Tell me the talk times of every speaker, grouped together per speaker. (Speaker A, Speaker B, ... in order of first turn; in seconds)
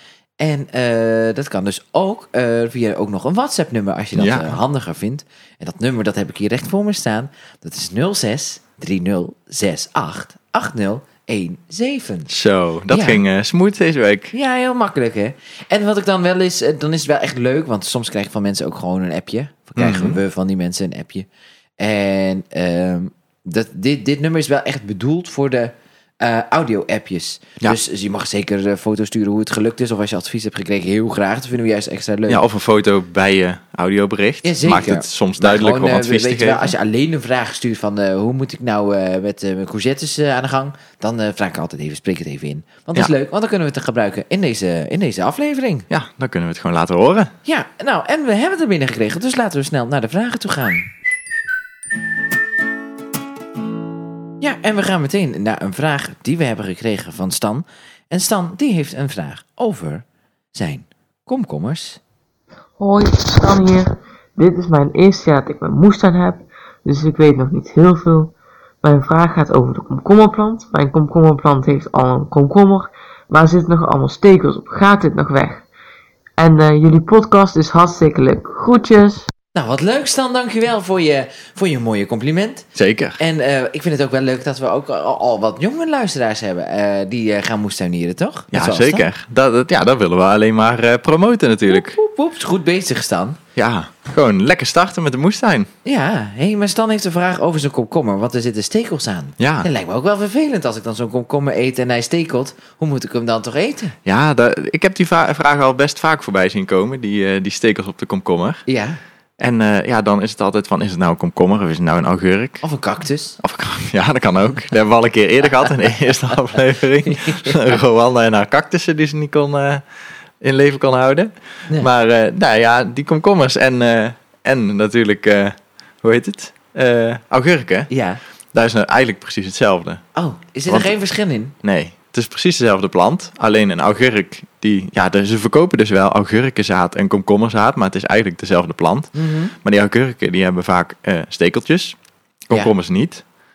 Speaker A: 0.4-12.3, 12.9-13.2, 14.3-21.3, 21.8-32.4, 34.4-45.9, 47.5-50.9, 54.4-62.0, 79.5-82.7, 83.2-89.1, 91.7-93.4, 95.8-104.0, 108.7-109.0, 112.6-113.4, 117.1-117.8, 127.9-128.2, 130.2-131.6, 139.1-139.5
Speaker B: 4.2-4.6, 12.3-14.3, 19.8-20.2, 32.3-36.7, 45.9-47.3, 82.8-83.2, 88.5-92.0, 93.6-95.7, 99.4-99.7, 104.0-108.6, 109.4-112.6, 113.4-119.8, 120.4-127.9, 128.5-130.0, 130.7-130.9, 131.6-142.0, 142.5-143.2
Speaker C: 62.8-75.7, 76.4-79.3